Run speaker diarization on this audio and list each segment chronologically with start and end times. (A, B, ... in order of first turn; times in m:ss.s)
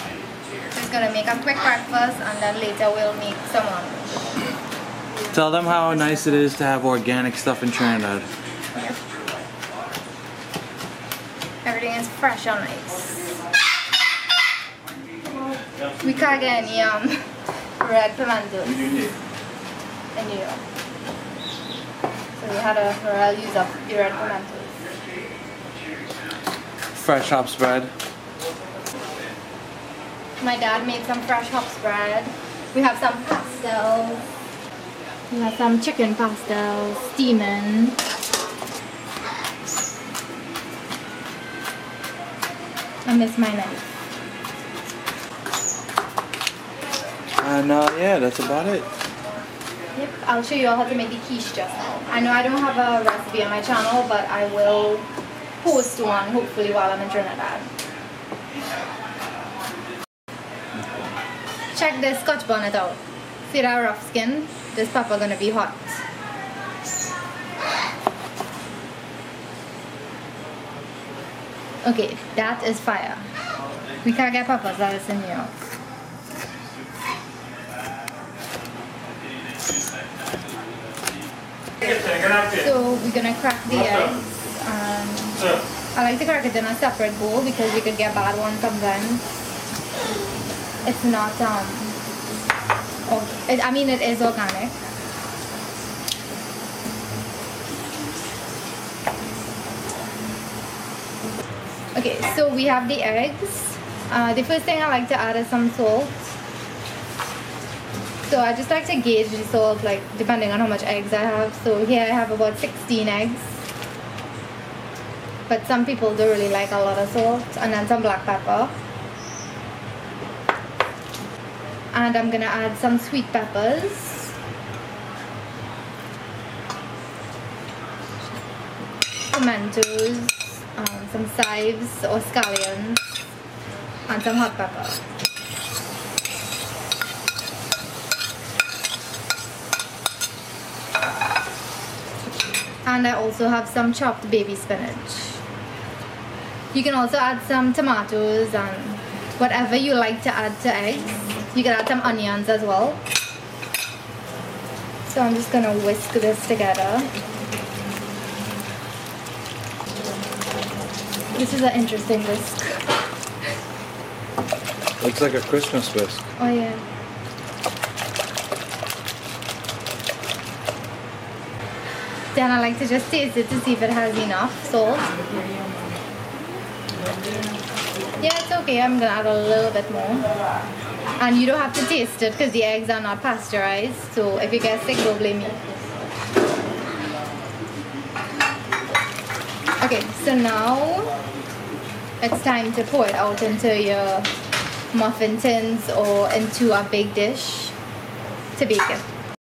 0:00.7-0:04.4 A
0:05.3-0:08.3 B
0:11.6-0:13.3 A
0:16.0-0:18.9 A
0:18.8-0:19.1 B
0:20.1-0:20.6 A
0:22.4-0:24.8 A
0:27.0-0:27.9 B
0:30.4-0:34.2 A
0:35.3-0:38.0 A
0:43.0-0:43.8 A
0:47.4-0:48.9 B
0:50.0-0:55.1 A
0:55.6-0:57.7 A
1:01.7-1:06.0 A
1:11.8-1:13.2 A
1:14.0-1:15.5 A
1:21.8-1:25.4 A
1:21.8-1:22.6 B
1:25.9-1:29.2 A
1:30.8-1:32.0 A
1:33.1-1:34.8 A
1:41.9-1:46.3 A
1:48.3-1:53.6 A
1:55.5-1:58.7 A
2:01.9-2:04.3 A
2:09.3-2:13.0 A
2:14.1-2:15.0 A
2:22.8-2:25.4 A
2:26.7-2:33.0 A
2:35.1-2:37.1 A
2:41.3-2:42.8 A
2:45.0-2:46.2 B
2:46.4-2:46.8 A
2:52.3-2:55.5 A
2:58.2-3:00.3 A
3:01.2-3:05.8 A
3:09.8-3:11.1 A
3:12.2-3:14.3 A
3:14.9-3:17.8 A
3:18.6-3:19.0 A